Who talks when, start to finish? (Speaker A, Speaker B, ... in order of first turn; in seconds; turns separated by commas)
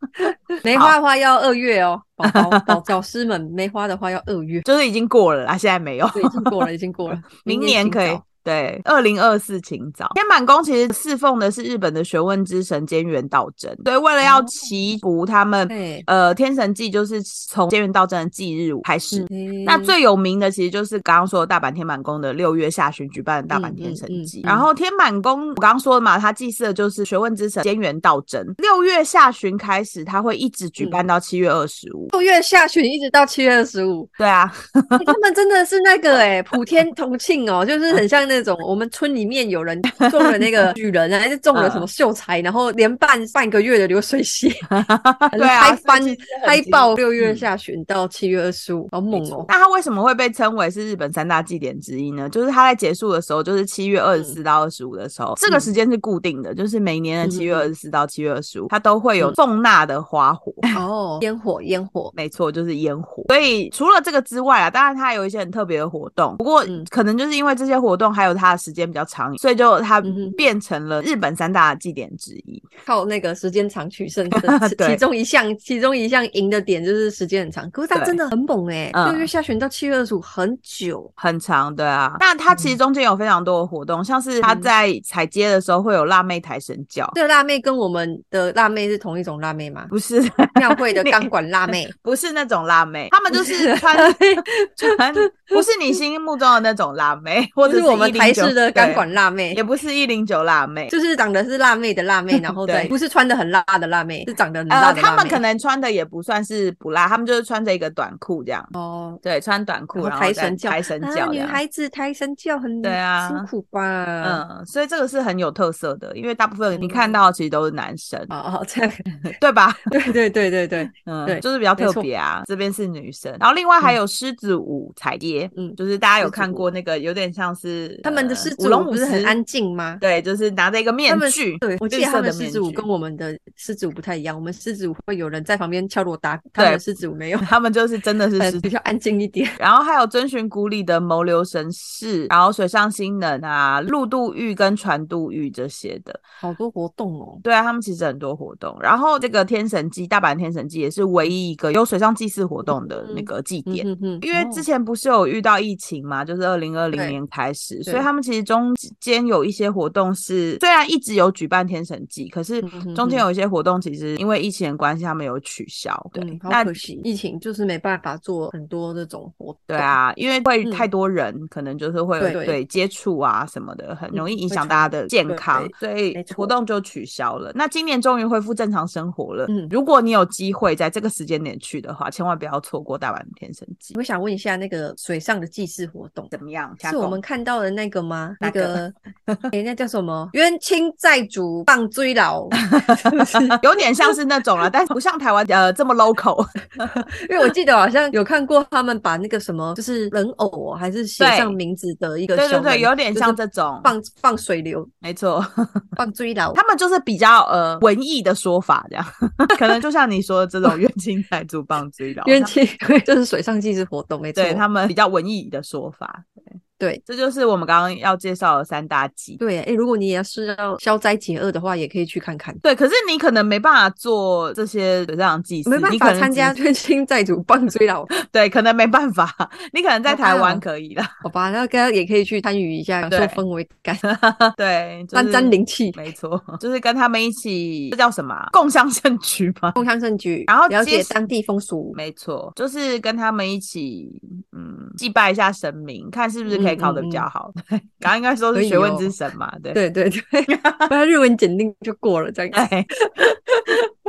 Speaker A: 0.2-4.6, Speaker B: 2.2-2.8, Speaker B: 4.6-32.1, Speaker A: 6.1-8.2, Speaker A: 14.2-14.6, Speaker A: 15.7-16.1, Speaker A: 19.1-19.9, Speaker A: 23.5-24.7, Speaker A: 32.1-34.1, Speaker B: 34.2-35.1, Speaker A: 34.9-44.7, Speaker B: 36.1-36.6, Speaker B: 40.0-40.7, Speaker B: 41.5-41.9, Speaker B: 44.7-47.5, Speaker A: 45.3-49.5, Speaker B: 49.1-60.7, Speaker A: 57.2-57.7, Speaker A: 60.7-62.1, Speaker B: 62.1-72.7, Speaker A: 70.0-70.4, Speaker A: 72.9-81.1, Speaker B: 74.3-75.0, Speaker B: 77.9-78.2, Speaker B: 78.9-79.3, Speaker B: 81.2-87.1, Speaker A: 82.5-82.8, Speaker A: 84.4-84.7, Speaker A: 87.1-89.9, Speaker B: 89.9-91.3, Speaker A: 90.5-91.9, Speaker B: 91.9-100.9, Speaker A: 93.3-96.0, Speaker A: 97.6-99.6, Speaker A: 100.9-105.4, Speaker B: 102.5-102.9, Speaker B: 104.7-108.7, Speaker A: 108.7-109.2, Speaker B: 109.2-111.6, Speaker A: 110.0-114.4, Speaker B: 112.8-113.5, Speaker B: 114.2-118.3, Speaker A: 116.7-117.2, Speaker A: 118.3-119.3, Speaker B: 119.3-120.1, Speaker A: 119.9-122.1, Speaker B: 120.9-129.4, Speaker A: 125.5-126.7, Speaker A: 128.0-130.0, Speaker B: 130.0-132.8, Speaker A: 131.1-137.5, Speaker B: 136.6-136.8, Speaker B: 137.4-138.7, Speaker A: 138.4-139.6, Speaker B: 139.6-146.2, Speaker A: 146.4-147.4, Speaker B: 147.4-166.8, Speaker A: 152.7-154.7, Speaker A: 156.9-157.2, Speaker A: 162.6-163.2, Speaker A: 166.1-169.9, Speaker B: 169.7-184.0, Speaker A: 170.6-170.9, Speaker A: 172.2-172.6, Speaker A: 174.1-176.5, Speaker A: 179.5-179.7, Speaker A: 183.9-186.3, Speaker B: 186.3-187.2, Speaker A: 186.8-188.9, Speaker B: 188.4-189.5, Speaker A: 189.5-194.1, Speaker B: 192.7-197.0, Speaker A: 196.8-204.9, Speaker B: 201.2-201.6, Speaker B: 202.3-203.9, Speaker B: 205.0-205.8, Speaker A: 206.0-206.6, Speaker B: 206.5-212.6, Speaker A: 212.2-214.6, Speaker B: 214.3-219.4, Speaker A: 219.4-222.6, Speaker B: 222.6-226.6, Speaker A: 225.7-228.1, Speaker B: 228.2-231.1, Speaker A: 230.1-230.6, Speaker A: 231.2-234.0, Speaker B: 233.1-233.4, Speaker B: 234.0-239.8, Speaker A: 235.1-236.1, Speaker A: 239.7-242.0, Speaker B: 240.5-241.2, Speaker B: 241.9-249.8, Speaker A: 246.5-247.3, Speaker A: 248.5-249.2, Speaker A: 249.7-253.9, Speaker B: 250.5-250.9, Speaker B: 252.5-252.9